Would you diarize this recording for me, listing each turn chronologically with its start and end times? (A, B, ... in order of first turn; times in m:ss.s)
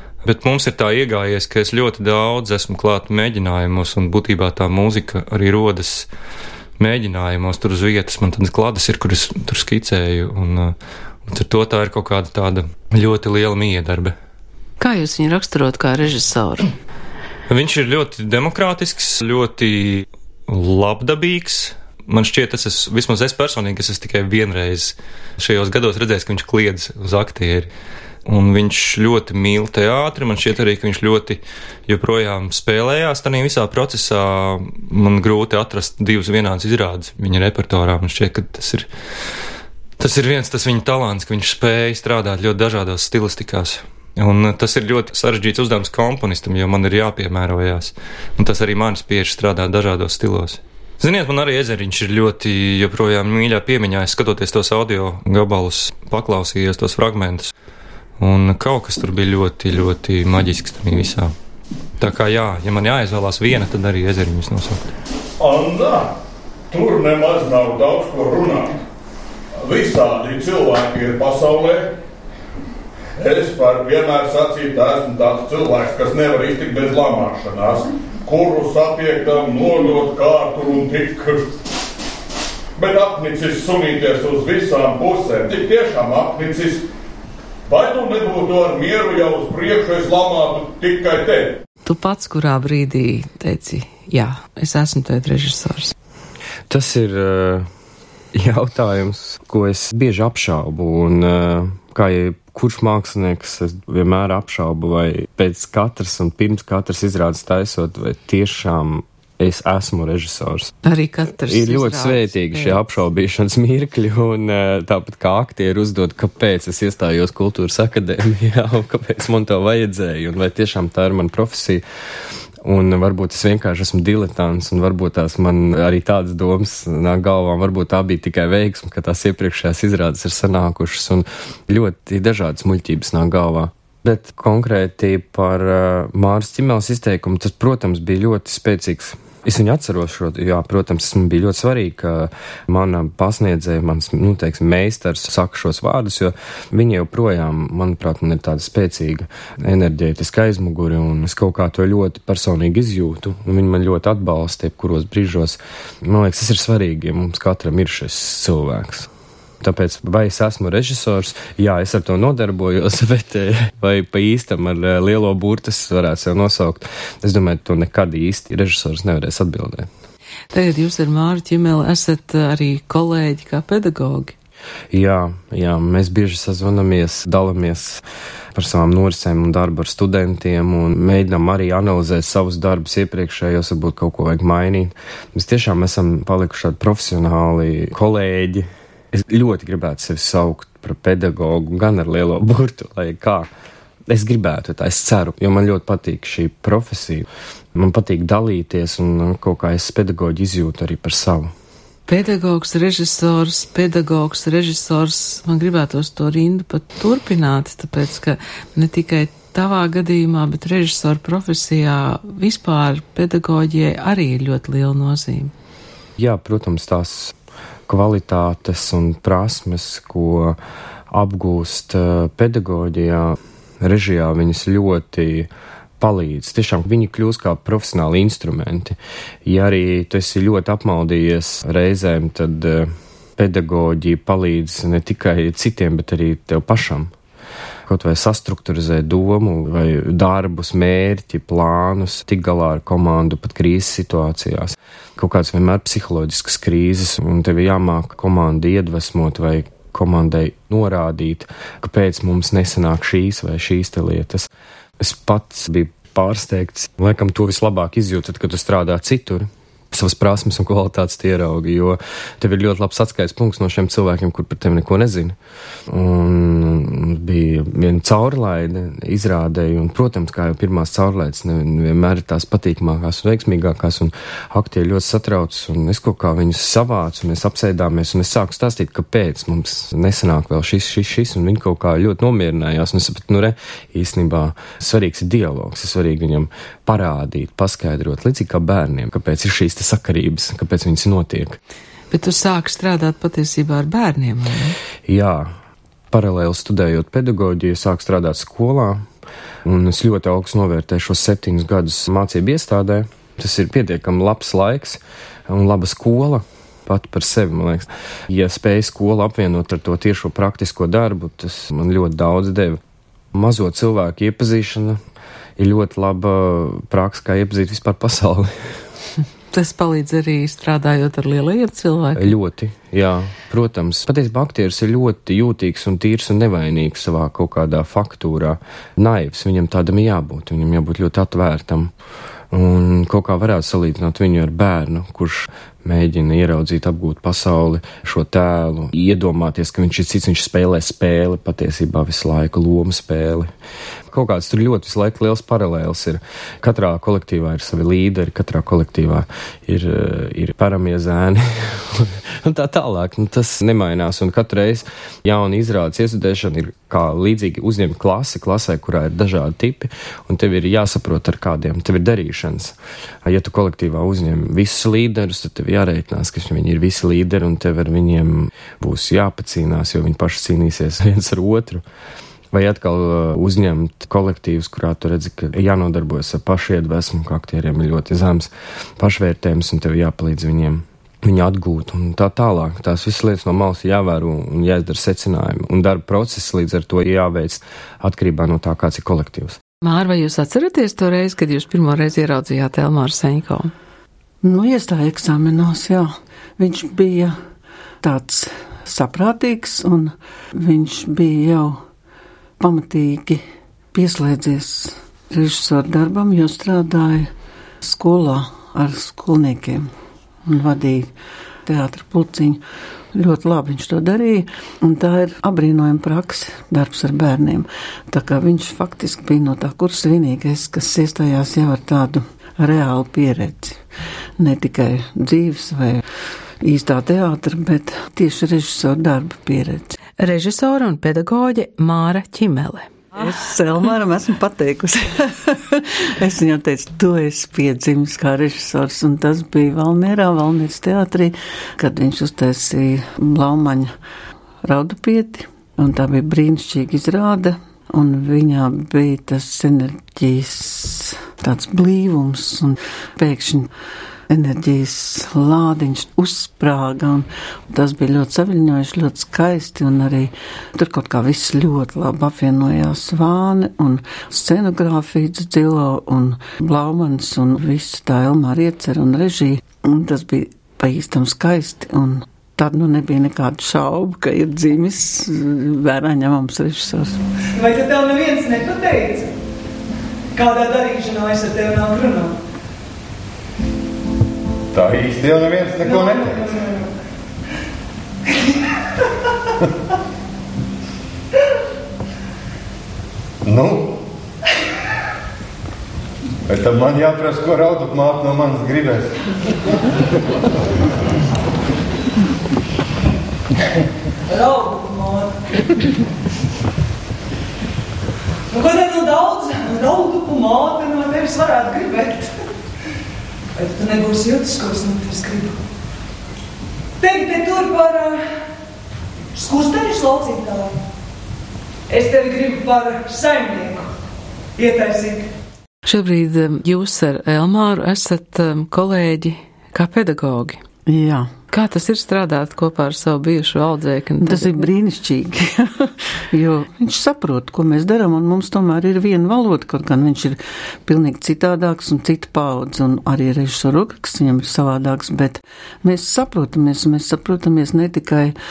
0:00.2-0:06.1 A
0:06.8-0:10.8 A
0:11.3-0:14.2 A
0:14.8-0:16.7 B
0:17.5-0:27.7 A
0:28.2-0:39.4 A
0:40.0-0:57.5 A
0:58.2-1:01.3 A
1:02.0-1:04.8 A
1:05.4-1:06.1 C
1:06.7-1:08.8 C
1:09.6-1:11.9 C
1:13.2-1:21.5 C
1:22.8-1:26.9 C
1:27.7-1:31.6 C
1:31.8-1:35.9 B
1:36.7-1:37.7 D
1:38.3-1:50.7 D
1:50.8-1:52.8 B
1:51.4-2:01.8 D
2:02.6-2:39.1 D
2:39.6-2:49.9 D
2:50.5-2:54.3 B
2:54.9-2:58.0 D
2:58.5-3:13.5 D
3:14.1-3:21.5 D
3:22.1-3:35.5 B
3:36.2-3:37.4 D
3:37.9-3:40.6 D
3:41.1-3:57.1 D
3:57.9-4:25.4 D
4:25.9-4:51.6 D
4:52.1-4:54.8 B
4:55.1-4:55.5 D
4:56.1-4:59.1 D
4:59.6-5:12.8 D
5:13.3-5:15.0 D
5:15.6-5:18.5 D
5:19.5-5:22.4 B
5:22.2-5:31.9 D
5:32.5-5:43.5 D
5:44.1-6:11.8 D
6:12.5-6:29.6 D
6:29.8-6:33.7 B
6:34.4-6:37.4 E
6:38.0-6:41.8 E
6:42.6-6:43.4 E
6:43.9-6:47.3 E
6:47.8-6:49.9 E
6:50.5-6:51.1 E
6:51.7-6:52.6 E
6:53.1-7:03.8 E
7:04.4-7:06.0 E
7:06.6-7:10.0 E
7:10.2-7:12.9 B
7:13.2-7:23.9 E
7:24.6-7:33.7 E
7:34.3-7:57.2 E
7:57.5-7:59.4 F
8:00.3-8:02.4 F
8:04.7-8:06.3 G
8:05.8-8:06.9 F
8:13.4-8:14.0 G
8:16.5-8:19.2 G
8:24.3-8:25.5 F
8:28.5-8:32.4 F
8:33.6-8:35.6 F
8:37.0-8:38.3 F
8:39.3-8:40.8 F
8:41.9-8:43.9 F
8:44.6-8:45.3 F
8:45.8-8:50.6 B
8:50.9-8:51.3 E
8:51.5-8:54.7 B
8:54.2-9:08.4 E